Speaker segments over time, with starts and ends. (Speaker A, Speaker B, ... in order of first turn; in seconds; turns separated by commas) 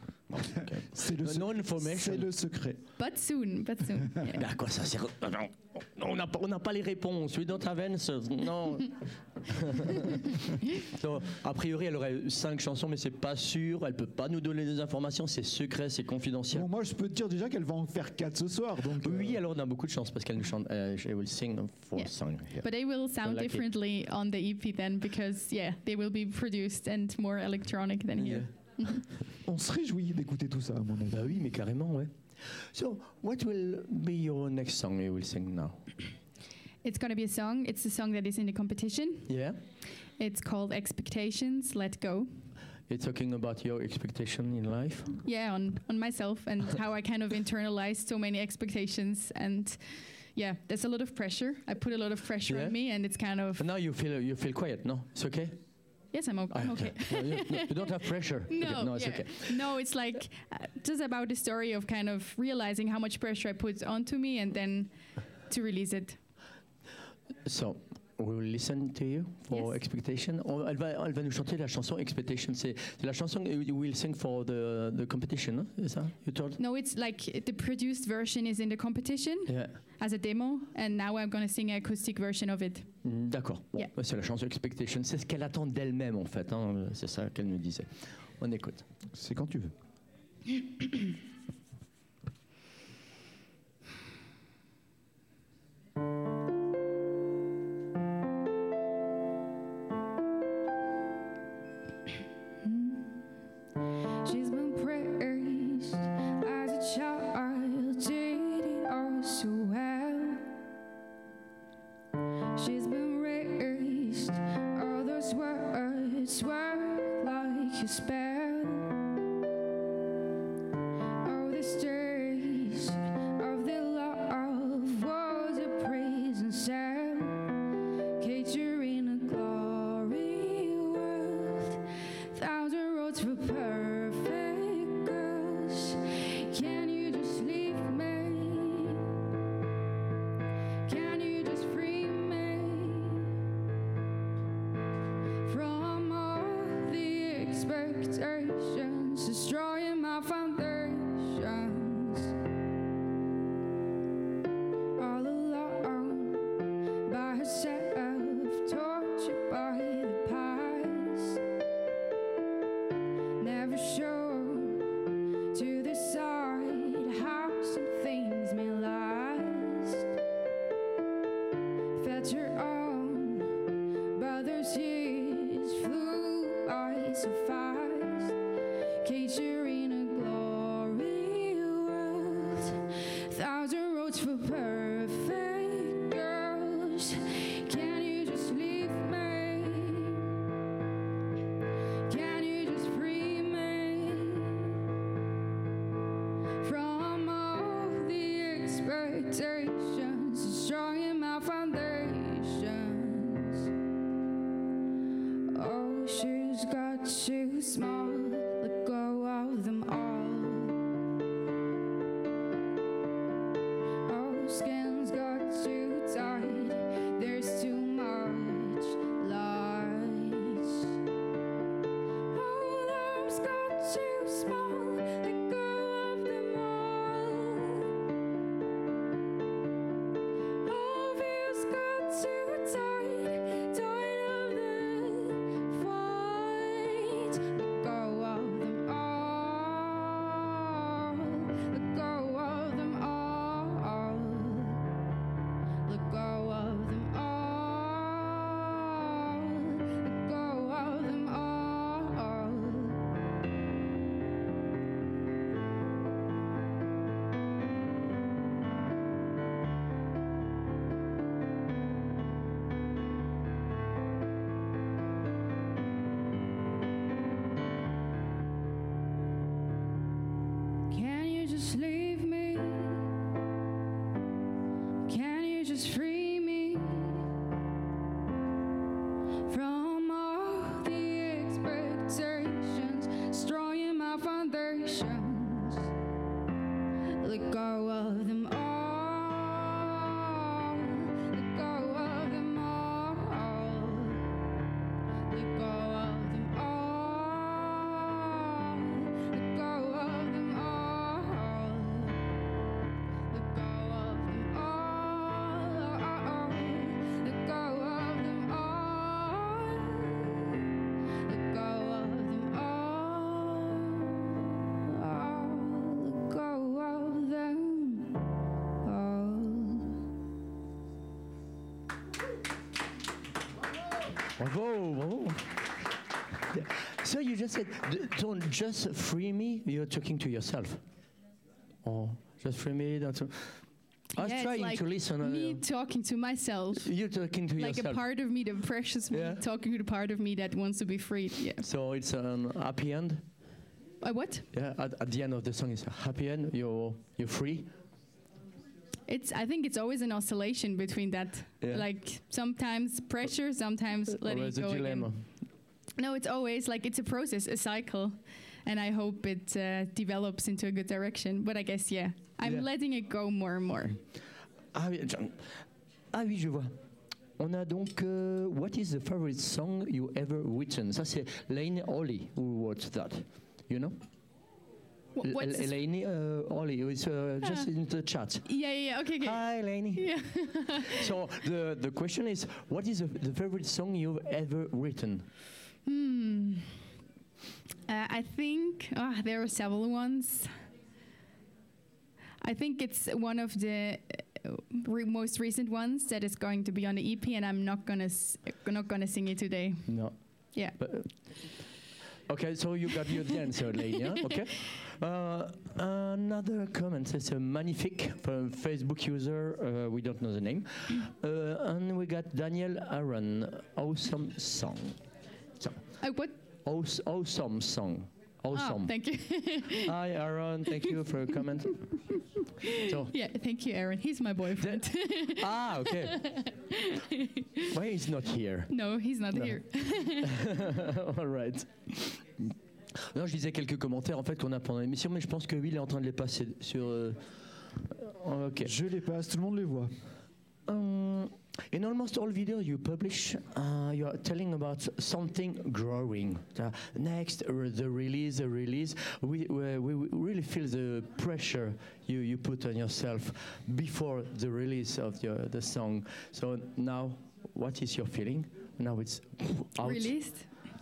Speaker A: 0.3-2.3, Speaker B: 0.9-2.8, Speaker C: 3.0-4.4, Speaker A: 4.3-16.7, Speaker B: 16.5-19.4, Speaker A: 19.0-22.7, Speaker C: 22.6-29.1, Speaker A: 23.2-23.6, Speaker A: 28.2-28.5, Speaker B: 29.4-31.3, Speaker A: 31.1-35.9, Speaker C: 36.8-39.3, Speaker A: 39.3-39.6, Speaker C: 40.2-42.3, Speaker A: 42.9-45.2, Speaker C: 45.2-53.6, Speaker A: 52.5-52.8, Speaker A: 53.6-55.6, Speaker C: 56.1-64.9, Speaker A: 56.5-59.6, Speaker C: 65.5-66.2, Speaker A: 67.4-76.6, Speaker C: 76.6-82.9, Speaker A: 79.5-79.7, Speaker A: 83.0-88.8, Speaker B: 89.1-89.7, Speaker D: 102.6-103.1, Speaker D: 103.9-110.6, Speaker D: 112.5-118.9, Speaker D: 121.2-127.6, Speaker D: 128.2-139.1, Speaker D: 140.8-143.4, Speaker D: 145.4-152.4, Speaker D: 155.0-161.4, Speaker D: 163.4-170.1, Speaker D: 171.9-178.4, Speaker D: 179.0-190.4, Speaker D: 192.1-194.8, Speaker D: 196.6-203.7, Speaker D: 205.5-210.8, Speaker D: 214.0-221.0, Speaker D: 222.3-228.0, Speaker D: 230.6-244.8, Speaker D: 245.8-253.0, Speaker D: 270.9-273.1, Speaker D: 275.1-277.3, Speaker D: 279.4-285.9, Speaker D: 287.2-294.3, Speaker D: 295.3-302.3, Speaker D: 303.3-310.7, Speaker D: 311.2-318.2, Speaker D: 318.8-320.0, Speaker A: 324.4-325.5, Speaker A: 326.5-330.8, Speaker A: 331.8-333.6, Speaker A: 334.1-335.6, Speaker C: 334.2-336.9, Speaker A: 336.8-338.0, Speaker C: 337.6-341.6, Speaker A: 339.1-339.4, Speaker A: 341.6-343.2, Speaker C: 344.0-344.5, Speaker A: 344.5-347.7, Speaker C: 349.1-355.1, Speaker A: 354.2-355.2, Speaker C: 356.0-364.0, Speaker A: 364.7-365.6, Speaker A: 366.1-366.7, Speaker A: 367.4-373.9, Speaker C: 375.1-375.7, Speaker A: 375.2-378.5, Speaker C: 378.4-381.1, Speaker A: 379.2-380.1, Speaker A: 380.8-385.3, Speaker C: 385.9-386.8, Speaker C: 387.9-390.5, Speaker C: 392.4-399.9, Speaker A: 399.9-400.1, Speaker A: 400.7-401.6, Speaker A: 402.3-415.0, Speaker C: 416.0-416.3, Speaker A: 416.6-418.9, Speaker C: 418.5-419.9, Speaker A: 419.7-421.8, Speaker C: 422.6-427.7, Speaker A: 422.8-423.1, Speaker A: 424.6-426.2, Speaker A: 427.7-428.7, Speaker C: 428.7-430.5, Speaker A: 430.2-437.2, Speaker A: 437.9-438.7, Speaker B: 438.6-439.9, Speaker A: 440.7-460.1, Speaker C: 459.8-460.5